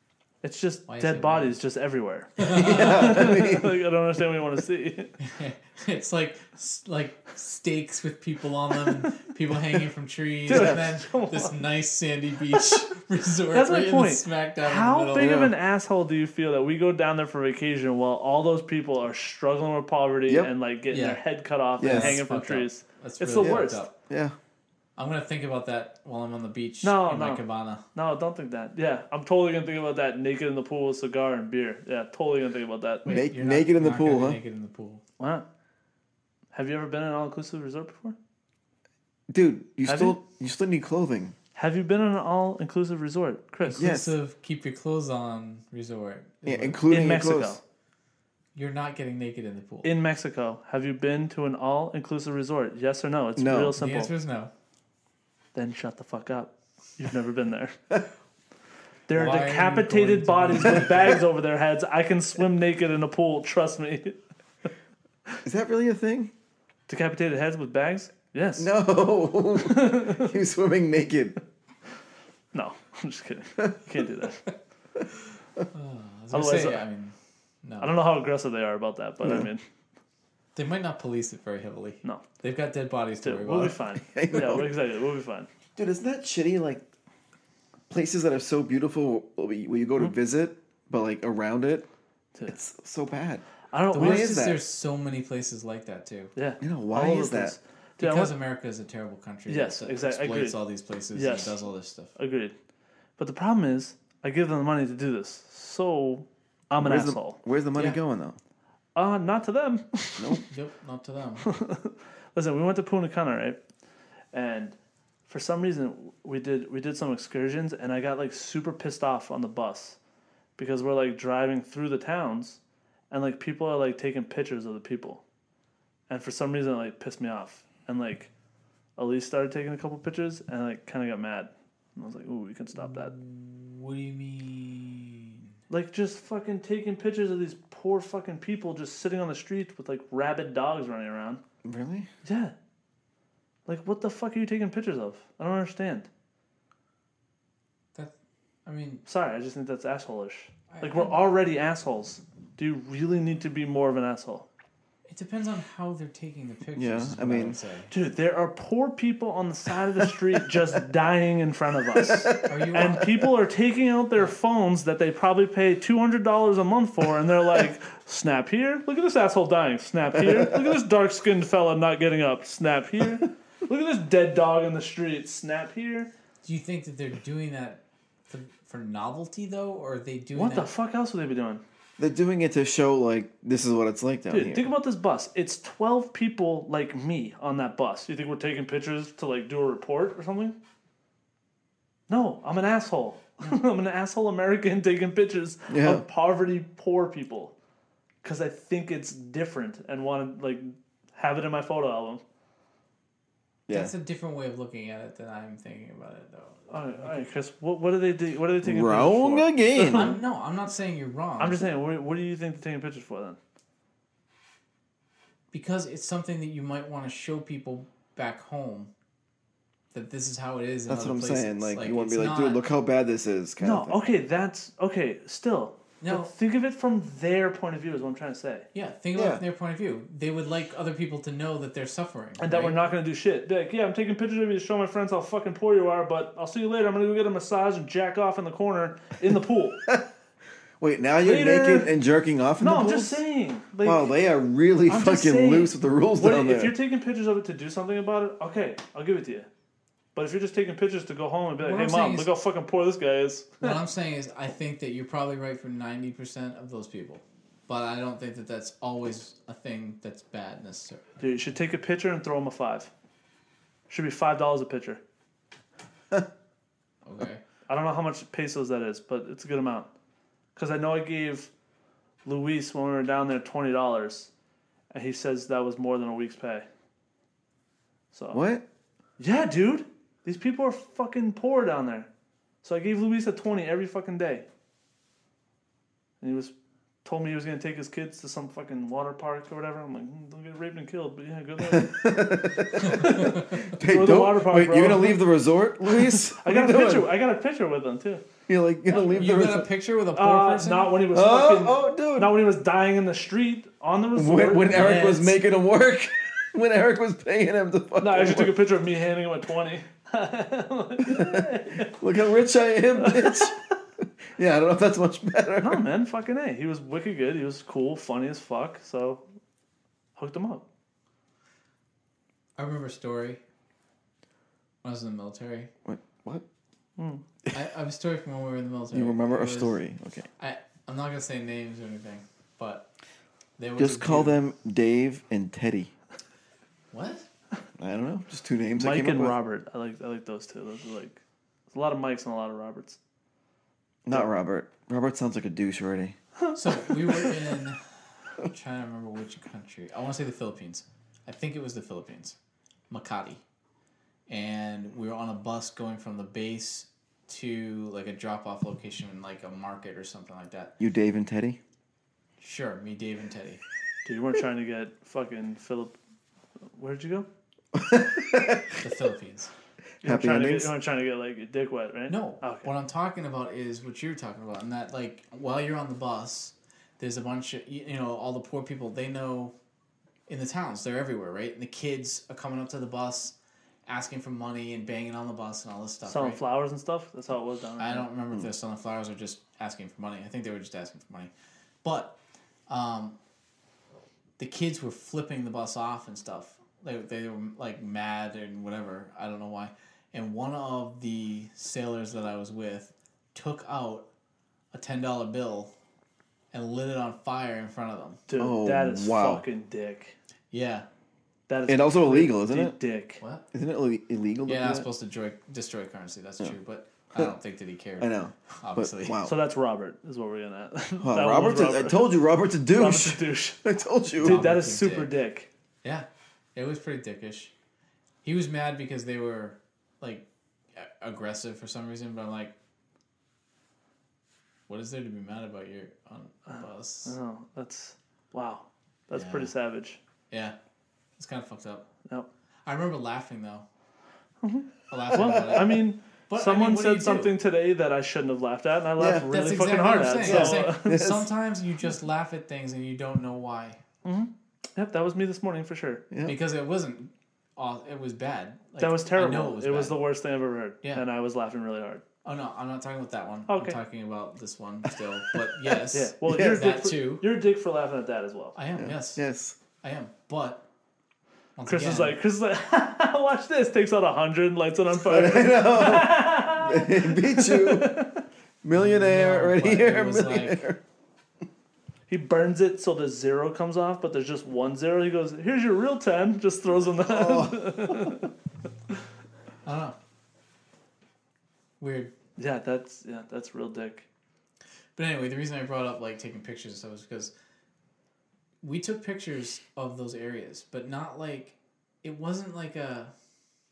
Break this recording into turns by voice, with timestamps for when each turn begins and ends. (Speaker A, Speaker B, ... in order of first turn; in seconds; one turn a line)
Speaker A: 0.4-5.1
Speaker B: 0.9-1.6
Speaker B: 2.4-3.3
Speaker C: 2.5-3.8
Speaker B: 5.2-15.3
Speaker A: 10.5-11.6
Speaker A: 12.6-12.8
Speaker A: 13.5-23.9
Speaker C: 15.2-15.5
Speaker B: 20.9-21.2
Speaker B: 21.8-23.9
Speaker C: 21.8-22.2
Speaker C: 23.4-24.3
Speaker B: 24.9-27.8
Speaker A: 26.8-33.1
Speaker B: 33.0-35.0
Speaker C: 33.0-34.4
Speaker A: 35.2-35.5
Speaker A: 36.5-38.1
Speaker C: 39.3-41.3
Speaker A: 39.9-40.2
Speaker A: 41.5-43.8
Speaker B: 43.6-46.9
Speaker C: 43.8-44.1
Speaker C: 46.4-47.6
Speaker A: 46.9-47.6
Speaker B: 48.5-50.0
Speaker A: 49.8-54.1
Speaker C: 53.4-53.7
Speaker B: 53.8-54.5
Speaker A: 55.5-57.8
Speaker A: 59.1-64.2
Speaker B: 59.1-61.2
Speaker C: 65.4-66.3
Speaker A: 66.9-68.7
Speaker C: 68.6-71.4
Speaker A: 69.6-70.3
Speaker A: 72.5-74.5
Speaker B: 75.7-78.0
Speaker A: 76.3-76.8
Speaker A: 77.8-79.6
Speaker B: 80.5-83.8
Speaker A: 83.2-85.5
Speaker C: 84.0-84.7
Speaker C: 85.8-86.8
Speaker C: 87.9-91.9
Speaker C: 92.5-94.6
Speaker A: 93.7-94.4
Speaker B: 93.9-96.3
Speaker A: 96.3-98.3
Speaker C: 96.6-97.6
Speaker B: 98.0-102.1
Speaker A: 99.5-100.6
Speaker A: 101.1-101.6
Speaker A: 102.2-102.5
Speaker A: 103.2-107.4
Speaker C: 106.8-108.4
Speaker A: 108.9-110.4
Speaker B: 110.4-111.5
Speaker A: 111.4-113.6
Speaker A: 114.3-120.0
Speaker A: 120.6-122.6
Speaker A: 123.1-125.2
Speaker A: 126.1-128.3
Speaker A: 129.0-133.1
Speaker B: 132.8-135.5
Speaker A: 135.7-141.4
Speaker C: 141.6-142.1
Speaker A: 142.2-142.5
Speaker A: 143.7-146.1
Speaker B: 148.6-149.0
Speaker A: 149.1-154.5
Speaker B: 150.7-151.2
Speaker B: 155.1-157.9
Speaker C: 156.8-157.6
Speaker A: 157.9-176.1
Speaker C: 162.0-162.6
Speaker B: 162.4-163.0
Speaker B: 176.4-180.7
Speaker A: 180.3-181.6
Speaker C: 182.0-184.7
Speaker A: 184.3-190.6
Speaker A: 192.1-197.5
Speaker C: 195.7-196.0
Speaker A: 198.2-202.2
Speaker C: 203.7-203.9
Speaker B: 203.7-207.3
Speaker A: 206.7-210.2
Speaker C: 208.6-210.1
Speaker B: 209.9-211.6
Speaker A: 211.4-213.4
Speaker B: 215.5-218.9
Speaker B: 219.9-222.6
Speaker C: 220.9-224.0
Speaker A: 223.6-228.7
Speaker B: 226.0-226.3
Speaker B: 228.7-232.8
Speaker C: 229.1-229.4
Speaker A: 232.4-239.8
Speaker C: 240.8-243.2
Speaker A: 241.2-241.9
Speaker A: 242.6-244.1
Speaker C: 243.8-246.7
Speaker A: 244.9-249.5
Speaker A: 250.1-253.8
Speaker B: 251.6-252.3
Speaker B: 253.6-261.1
Speaker A: 261.2-262.9
Speaker A: 263.9-265.0
Speaker B: 267.0-267.4
Speaker A: 267.7-269.9
Speaker A: 270.6-271.5
Speaker A: 272.2-274.3
Speaker A: 274.9-276.6
Speaker A: 278.1-278.4
Speaker C: 278.3-278.6
Speaker A: 279.2-282.1
Speaker A: 282.6-284.5
Speaker A: 286.2-292.0
Speaker C: 291.6-297.1
Speaker A: 292.8-295.2
Speaker A: 295.9-298.2
Speaker C: 298.5-299.7
Speaker B: 298.9-300.9
Speaker A: 300.1-305.0
Speaker C: 301.1-302.4
Speaker C: 304.1-308.6
Speaker B: 304.7-305.4
Speaker A: 308.0-312.0
Speaker C: 311.1-313.6
Speaker A: 313.0-313.5
Speaker C: 314.4-315.8
Speaker A: 315.6-319.2
Speaker A: 320.1-320.6
Speaker B: 322.6-323.4
Speaker B: 324.8-325.7
Speaker C: 325.8-326.4
Speaker A: 327.0-327.2
Speaker B: 327.5-329.8
Speaker C: 328.9-330.3
Speaker B: 330.4-332.9
Speaker B: 333.6-334.4
Speaker C: 333.8-335.9
Speaker B: 336.9-337.3
Speaker C: 337.8-339.4
Speaker A: 338.8-343.0
Speaker C: 344.0-346.1
Speaker B: 346.5-347.8
Speaker B: 348.4-352.4
Speaker B: 352.9-353.4
Speaker B: 354.3-360.7
Speaker C: 360.8-361.6
Speaker B: 362.4-363.6
Speaker A: 364.0-365.9
Speaker A: 366.8-367.3
Speaker C: 367.7-368.8
Speaker B: 368.8-369.5
Speaker C: 370.0-370.7
Speaker A: 370.0-372.7
Speaker B: 372.1-379.5
Speaker B: 380.3-386.4
Speaker A: 386.0-388.1
Speaker B: 387.8-391.3
Speaker B: 391.8-392.2
Speaker B: 392.7-393.2
Speaker B: 394.4-404.1
Speaker B: 404.7-405.7
Speaker B: 406.5-408.2
Speaker A: 408.3-410.1
Speaker C: 408.4-409.4
Speaker B: 410.5-410.9
Speaker A: 411.5-413.2
Speaker C: 411.7-412.8
Speaker B: 413.2-413.4
Speaker C: 413.5-414.9
Speaker B: 414.4-419.2
Speaker C: 418.0-419.3
Speaker A: 419.2-422.1
Speaker C: 421.0-424.4
Speaker A: 422.7-423.6
Speaker B: 424.2-425.1
Speaker A: 424.2-425.5
Speaker B: 425.8-427.5
Speaker B: 428.2-432.5
Speaker B: 434.7-437.1
Speaker A: 436.5-440.0
Speaker B: 439.1-439.5
Speaker B: 440.3-440.6
Speaker B: 441.2-441.9
Speaker B: 442.6-443.6
Speaker A: 444.4-451.0
Speaker B: 444.9-447.3
Speaker C: 445.3-445.7
Speaker C: 449.0-449.2
Speaker B: 449.3-453.8
Speaker C: 450.2-451.3
Speaker A: 454.0-456.0
Speaker C: 456.1-456.4
Speaker B: 456.2-460.0
Speaker A: 458.8-462.0
Speaker B: 462.2-467.3
Speaker A: 463.5-463.8
Speaker A: 465.9-468.6
Speaker C: 466.2-466.7
Speaker B: 468.5-469.2
Speaker C: 468.8-469.6
Speaker B: 469.8-470.6
Speaker B: 471.6-472.2
Speaker A: 471.7-478.2
Speaker C: 475.0-478.0
Speaker C: 478.6-480.8
Speaker B: 478.7-480.6
Speaker A: 482.1-488.3
Speaker C: 487.0-488.1
Speaker B: 489.6-489.9
Speaker B: 491.8-492.1
Speaker A: 492.4-494.1
Speaker B: 494.9-497.3
Speaker B: 498.6-503.1